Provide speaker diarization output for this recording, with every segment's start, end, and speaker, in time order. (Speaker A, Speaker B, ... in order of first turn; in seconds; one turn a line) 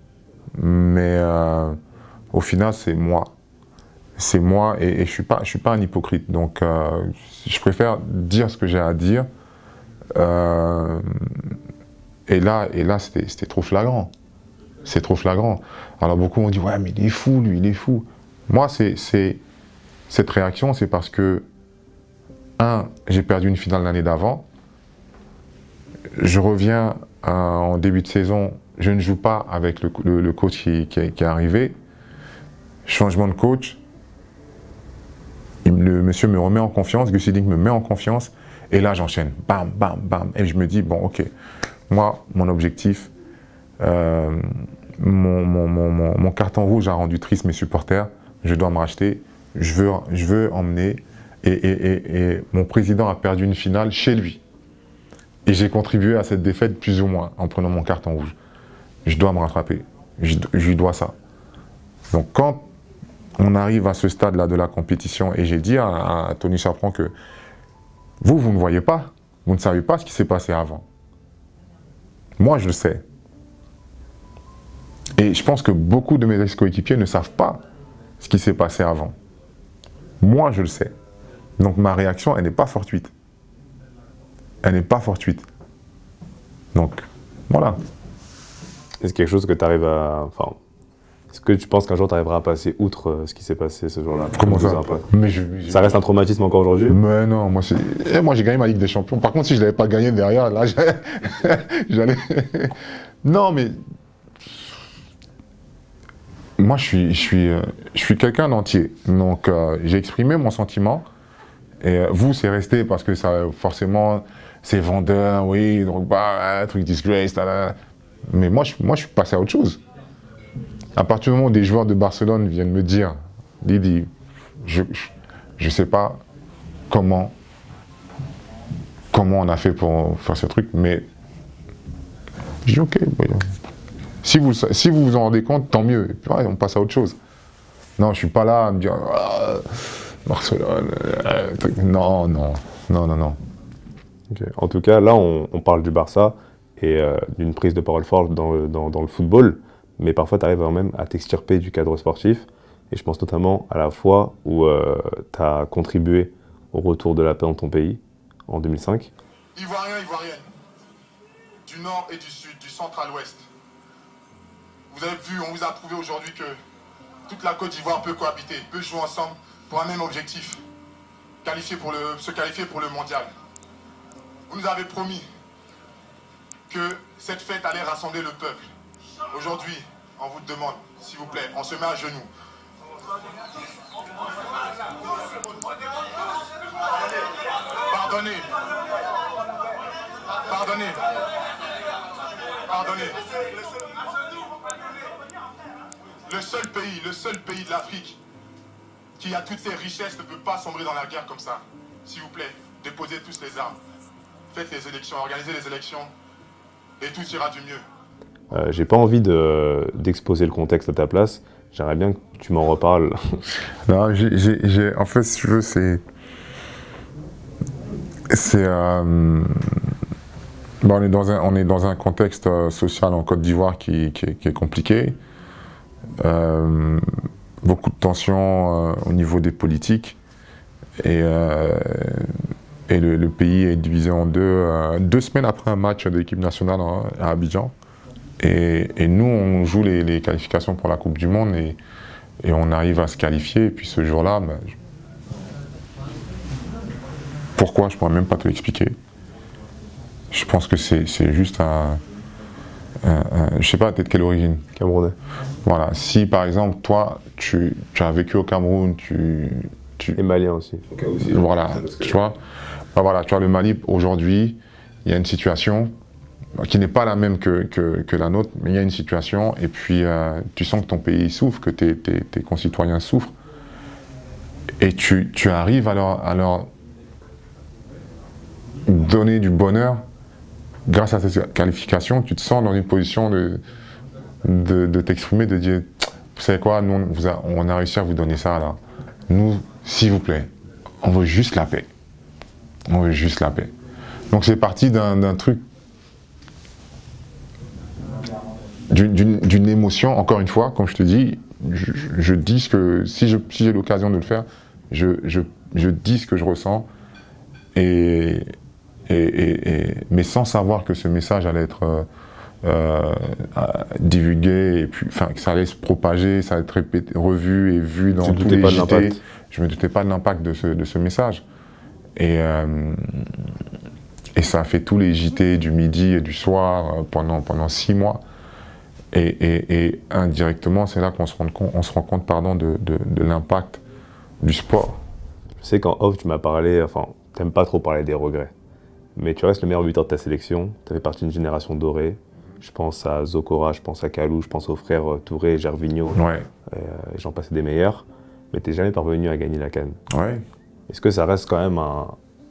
Speaker A: 0.5-1.8
Speaker A: 2.3-3.3
Speaker A: 4.2-9.3
Speaker A: 10.1-11.5
Speaker A: 12.3-14.1
Speaker A: 14.8-19.4
Speaker A: 20.1-21.5
Speaker A: 22.6-24.5
Speaker A: 26.2-31.8
Speaker A: 32.9-33.8
Speaker A: 35.6-41.3
Speaker A: 41.9-43.1
Speaker A: 43.8-44.5
Speaker A: 45.0-54.4
Speaker A: 55.5-58.4
Speaker A: 59.1-61.1
Speaker A: 62.1-62.6
Speaker A: 63.4-67.1
Speaker A: 68.2-70.8
Speaker A: 72.4-73.0
Speaker A: 75.2-77.6
Speaker A: 78.2-79.1
Speaker A: 80.2-80.9
Speaker A: 81.6-83.1
Speaker A: 84.6-85.4
Speaker A: 86.7-87.8
Speaker B: 89.0-90.6
Speaker B: 91.3-95.1
Speaker A: 94.3-96.0
Speaker B: 95.7-97.0
Speaker A: 96.9-103.8
Speaker A: 106.6-111.1
Speaker A: 111.8-117.8
Speaker A: 118.3-119.8
Speaker A: 121.0-124.1
Speaker A: 124.6-126.2
Speaker A: 126.9-127.3
Speaker A: 129.1-131.1
Speaker A: 132.7-133.5
Speaker A: 134.2-137.2
Speaker A: 138.0-143.4
Speaker B: 144.3-159.1
Speaker C: 159.6-160.5
Speaker C: 161.6-163.5
Speaker C: 164.9-166.6
Speaker C: 167.3-170.6
Speaker C: 171.4-173.3
Speaker C: 174.5-175.3
Speaker C: 176.7-178.7
Speaker C: 179.3-182.3
Speaker C: 187.8-188.5
Speaker C: 190.4-191.0
Speaker C: 192.7-194.0
Speaker C: 196.3-198.2
Speaker C: 199.2-203.8
Speaker C: 204.5-206.1
Speaker C: 207.0-207.8
Speaker B: 208.5-213.5
Speaker A: 213.9-216.0
Speaker A: 218.3-219.8
Speaker A: 220.8-225.2
Speaker A: 226.2-227.0
Speaker A: 227.6-230.2
Speaker A: 231.0-232.3
Speaker A: 232.9-237.7
Speaker A: 238.4-241.8
Speaker A: 242.4-244.7
Speaker A: 247.6-249.0
Speaker A: 250.3-252.0
Speaker A: 253.0-254.7
Speaker B: 254.8-255.2
Speaker A: 255.6-260.2
Speaker B: 260.2-262.2
Speaker A: 261.2-262.4
Speaker A: 262.9-265.9
Speaker A: 266.6-273.3
Speaker A: 274.8-276.7
Speaker A: 278.9-280.0
Speaker A: 280.9-283.6
Speaker A: 284.4-288.8
Speaker A: 289.3-290.5
Speaker A: 291.0-291.9
Speaker A: 292.9-293.7
Speaker A: 294.3-295.6
Speaker A: 298.9-306.9
Speaker A: 307.8-308.5
Speaker A: 309.1-312.1
Speaker A: 312.6-321.4
Speaker B: 318.2-319.2
Speaker A: 322.2-323.3
Speaker A: 324.4-328.2
Speaker A: 329.1-333.8
Speaker A: 334.4-335.0
Speaker B: 335.6-338.5
Speaker B: 339.2-350.0
Speaker A: 346.1-346.5
Speaker A: 350.1-350.4
Speaker B: 350.9-352.2